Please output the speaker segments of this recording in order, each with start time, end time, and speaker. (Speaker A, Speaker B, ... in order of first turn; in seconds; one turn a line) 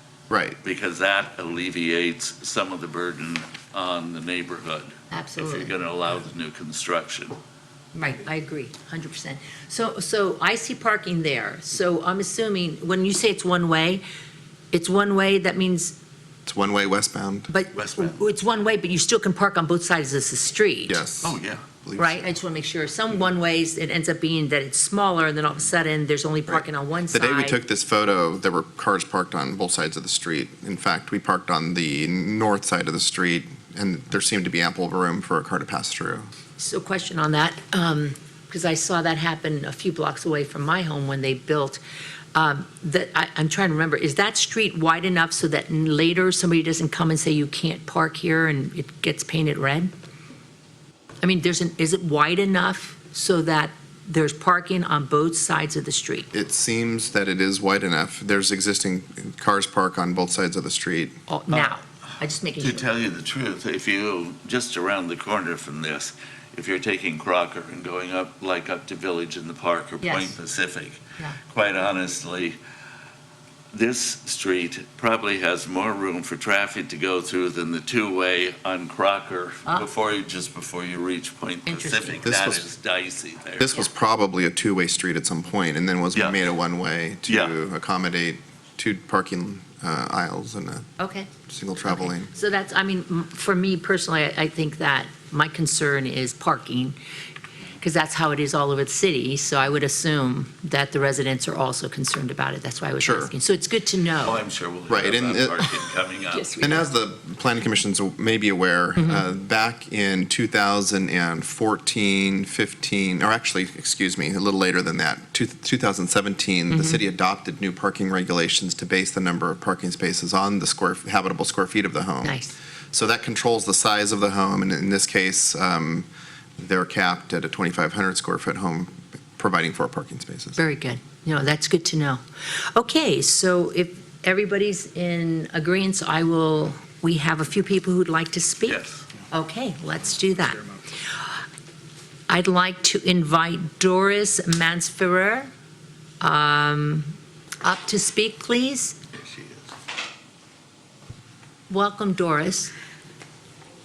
Speaker A: 0.3-0.6
Speaker B: 0.6-7.4
Speaker C: 5.1-5.7
Speaker C: 7.9-14.0
Speaker C: 14.7-15.9
Speaker A: 16.4-17.5
Speaker C: 17.5-21.0
Speaker B: 17.7-18.2
Speaker A: 20.9-22.3
Speaker B: 21.2-21.6
Speaker C: 22.0-27.6
Speaker A: 26.5-36.3
Speaker C: 36.6-41.8
Speaker C: 42.3-49.9
Speaker C: 51.2-56.3
Speaker A: 56.3-61.1
Speaker C: 61.3-62.9
Speaker B: 62.6-72.6
Speaker C: 70.0-70.3
Speaker B: 73.7-83.7
Speaker C: 81.7-82.2
Speaker A: 82.2-82.6
Speaker A: 83.6-90.8
Speaker B: 86.1-86.4
Speaker B: 87.3-87.5
Speaker C: 91.0-91.3
Speaker A: 91.5-92.3
Speaker C: 91.8-97.0
Speaker C: 97.8-104.4
Speaker A: 103.0-103.3
Speaker B: 104.2-106.7
Speaker A: 104.9-105.7
Speaker A: 106.6-122.4
Speaker C: 109.0-109.2
Speaker C: 116.7-117.0
Speaker C: 122.2-122.5
Speaker A: 122.9-126.1
Speaker A: 126.6-130.6
Speaker C: 130.6-132.2
Speaker C: 132.7-140.6
Speaker B: 138.7-139.0
Speaker C: 142.3-145.5
Speaker C: 146.2-148.9
Speaker B: 149.2-149.6
Speaker C: 151.7-152.7